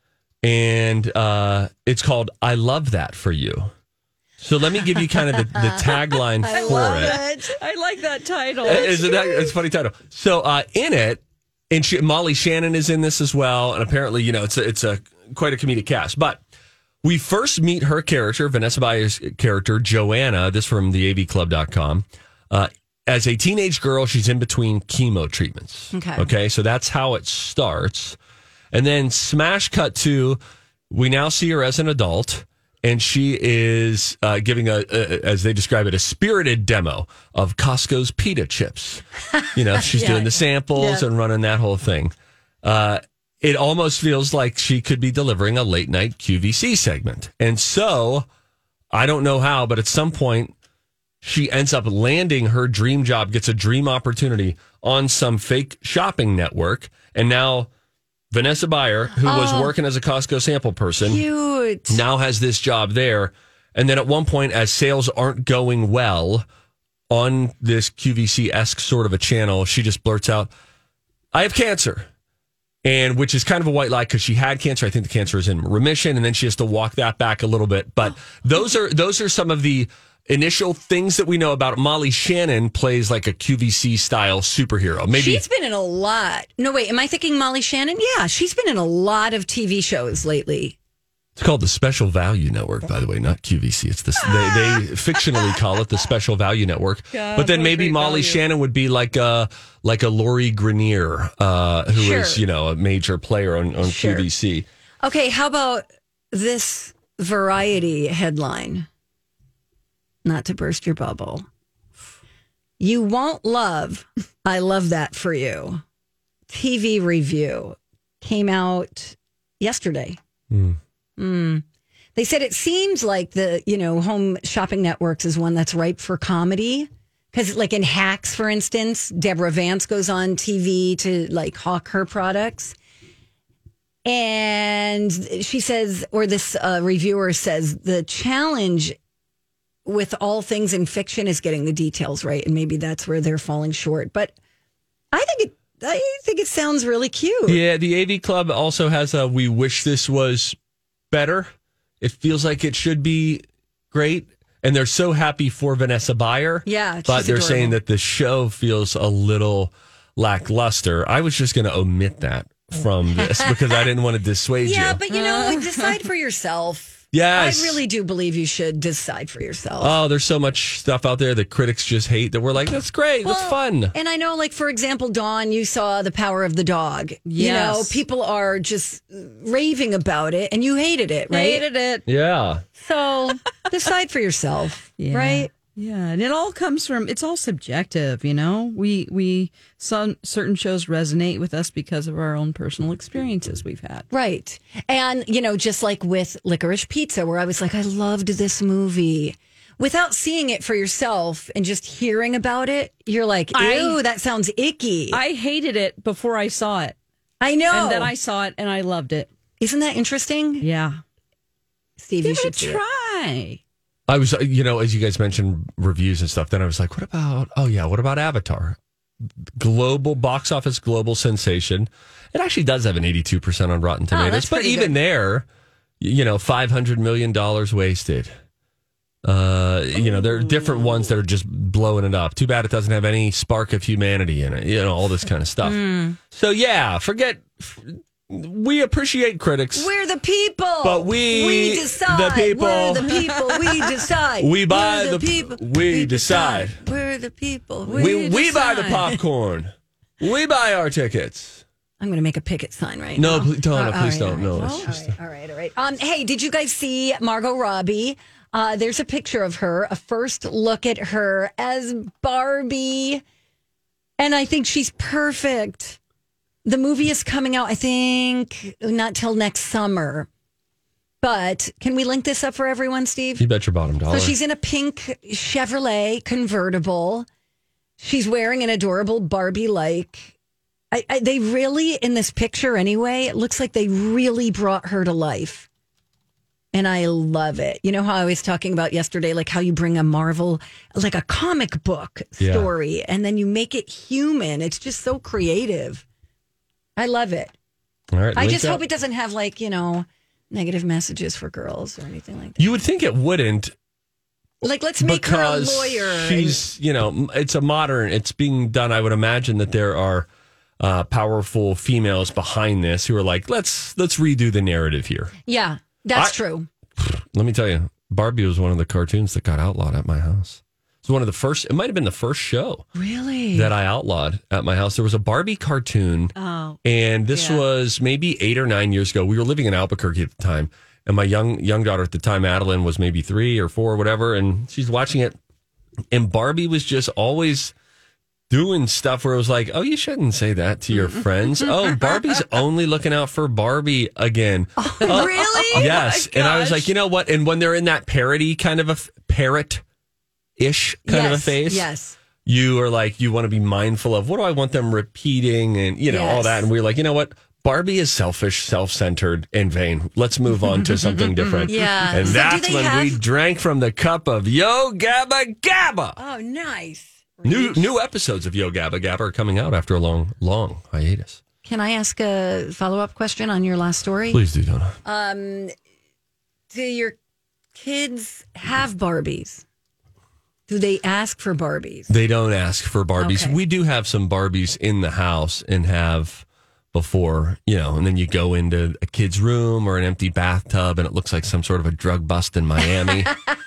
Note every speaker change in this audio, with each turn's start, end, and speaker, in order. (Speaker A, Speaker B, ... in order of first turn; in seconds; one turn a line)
Speaker A: 0.4-3.7
Speaker A: 4.4-7.2
Speaker B: 6.4-7.6
Speaker C: 6.5-9.5
Speaker B: 8.6-9.5
Speaker A: 8.6-16.4
Speaker A: 17.0-28.2
Speaker B: 25.9-26.3
Speaker A: 28.7-30.4
Speaker A: 30.9-39.0
Speaker A: 39.5-42.1
Speaker B: 39.7-41.0
Speaker A: 42.6-48.2
Speaker A: 48.9-50.5
Speaker A: 51.2-57.7
Speaker A: 58.3-61.2
Speaker B: 59.2-59.7
Speaker B: 61.0-62.0
Speaker A: 61.9-66.4
Speaker A: 67.1-70.5
Speaker A: 71.3-72.1
Speaker A: 72.8-85.4
Speaker B: 85.1-90.8
Speaker A: 91.4-104.7
Speaker B: 94.3-94.8
Speaker C: 97.1-98.4
Speaker B: 101.9-102.4
Speaker B: 103.8-104.3
Speaker B: 105.0-108.9
Speaker B: 110.2-111.5
Speaker B: 112.8-115.8
Speaker B: 116.5-120.2
Speaker A: 120.5-120.8
Speaker B: 121.2-121.6
Speaker B: 122.1-132.8
Speaker B: 134.0-138.9
Speaker B: 139.8-144.3
Speaker B: 145.1-147.6
Speaker A: 147.5-150.6
Speaker A: 151.1-151.5
Speaker A: 152.0-165.0
Speaker B: 156.6-157.8
Speaker B: 163.2-163.8
Speaker B: 164.6-170.0
Speaker C: 165.1-165.9
Speaker A: 167.1-167.8
Speaker A: 169.8-173.9
Speaker B: 173.2-181.7
Speaker C: 177.2-178.0
Speaker C: 181.3-182.0
Speaker A: 182.1-182.6
Speaker B: 182.8-185.5
Speaker C: 185.0-194.1
Speaker B: 194.1-205.2
Speaker C: 203.5-204.0
Speaker C: 205.1-206.9
Speaker B: 207.4-208.1
Speaker C: 207.7-209.3
Speaker B: 209.6-210.7
Speaker C: 210.6-211.0
Speaker B: 212.0-212.8
Speaker C: 212.2-213.6
Speaker A: 214.1-218.8
Speaker A: 219.6-225.4
Speaker B: 224.1-225.0
Speaker A: 226.0-228.3
Speaker A: 229.2-235.8
Speaker B: 230.0-230.8
Speaker B: 235.6-236.2
Speaker A: 236.3-239.9
Speaker B: 239.7-249.1
Speaker A: 240.8-243.2
Speaker A: 244.4-246.8
Speaker C: 247.8-249.0
Speaker A: 247.9-251.6
Speaker B: 252.0-263.2
Speaker A: 253.2-255.0
Speaker C: 254.6-254.9
Speaker B: 264.2-266.0
Speaker B: 266.6-270.3
Speaker B: 271.2-273.4
Speaker A: 273.4-274.3
Speaker B: 274.1-277.3
Speaker B: 278.0-280.3
Speaker B: 280.9-285.7
Speaker B: 286.7-296.0
Speaker A: 292.4-292.7
Speaker B: 297.0-297.5
Speaker A: 298.1-298.8
Speaker B: 298.3-302.7
Speaker A: 302.6-303.7
Speaker B: 304.6-306.6
Speaker A: 305.0-310.3
Speaker A: 310.8-315.3
Speaker B: 315.4-316.7
Speaker A: 317.0-322.8
Speaker B: 322.9-323.7
Speaker A: 323.5-335.4
Speaker C: 326.4-326.8
Speaker C: 327.3-327.6
Speaker A: 336.1-337.7
Speaker A: 338.5-349.8
Speaker B: 344.8-346.0
Speaker C: 345.0-346.9
Speaker A: 350.6-351.9
Speaker B: 351.1-352.2
Speaker A: 352.4-366.2
Speaker B: 356.1-356.7
Speaker C: 361.1-361.7
Speaker B: 361.6-363.2
Speaker B: 366.2-367.9
Speaker A: 367.4-371.4
Speaker B: 371.6-374.4
Speaker A: 374.3-374.9
Speaker B: 375.0-375.7
Speaker B: 376.7-377.2
Speaker B: 377.7-379.6
Speaker B: 380.7-382.1
Speaker A: 382.1-393.4
Speaker B: 383.2-383.6